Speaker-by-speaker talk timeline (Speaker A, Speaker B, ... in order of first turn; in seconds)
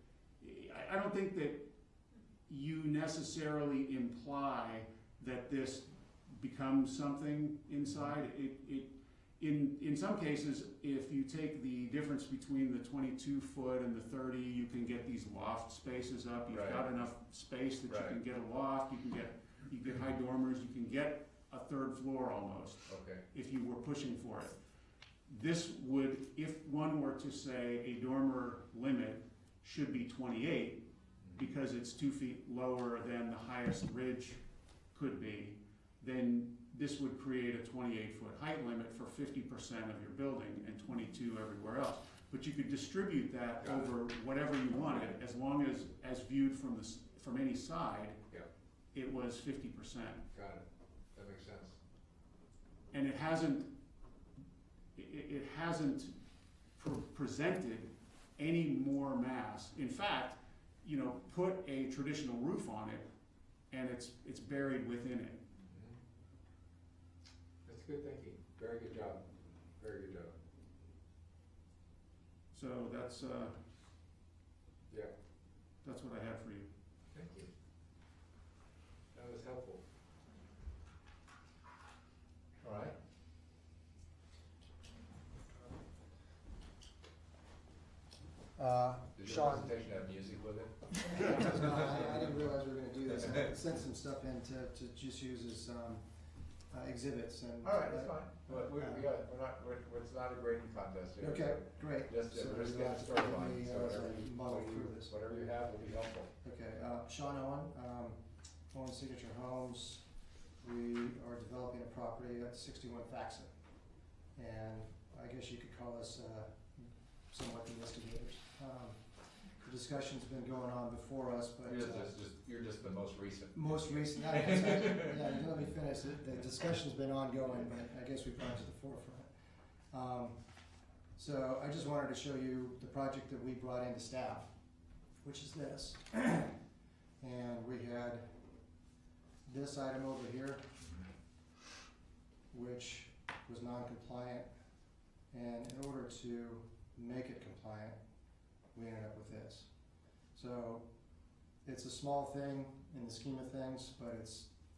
Speaker A: 0.4-1.7, 2.5-24.6, 25.3-34.4, 34.9-48.2, 48.9-50.3, 52.9-53.7, 55.0-56.1, 56.8-63.1, 63.7-65.4, 72.5-73.6, 75.8-76.7
Speaker B: 16.5-16.9, 17.9-18.2, 22.9-23.2, 31.2-31.5, 43.6-43.9, 50.3-51.8, 65.7-66.0, 67.7-69.2, 69.8-70.3, 77.1-77.5, 79.1-79.8, 82.6-83.0, 89.2-92.4, 97.6-106.3, 121.7-125.2
Speaker C: 88.6-89.7, 91.0-96.0, 96.7-99.1, 101.2-105.2, 106.4-110.0, 110.6-113.5, 114.3-122.2, 123.5-129.3, 129.9-130.4, 131.2-134.5, 135.2-136.6, 137.2-138.3, 139.4-140.6, 142.5-144.5, 145.3-148.0, 148.7-149.7, 150.3-150.9, 151.6-154.5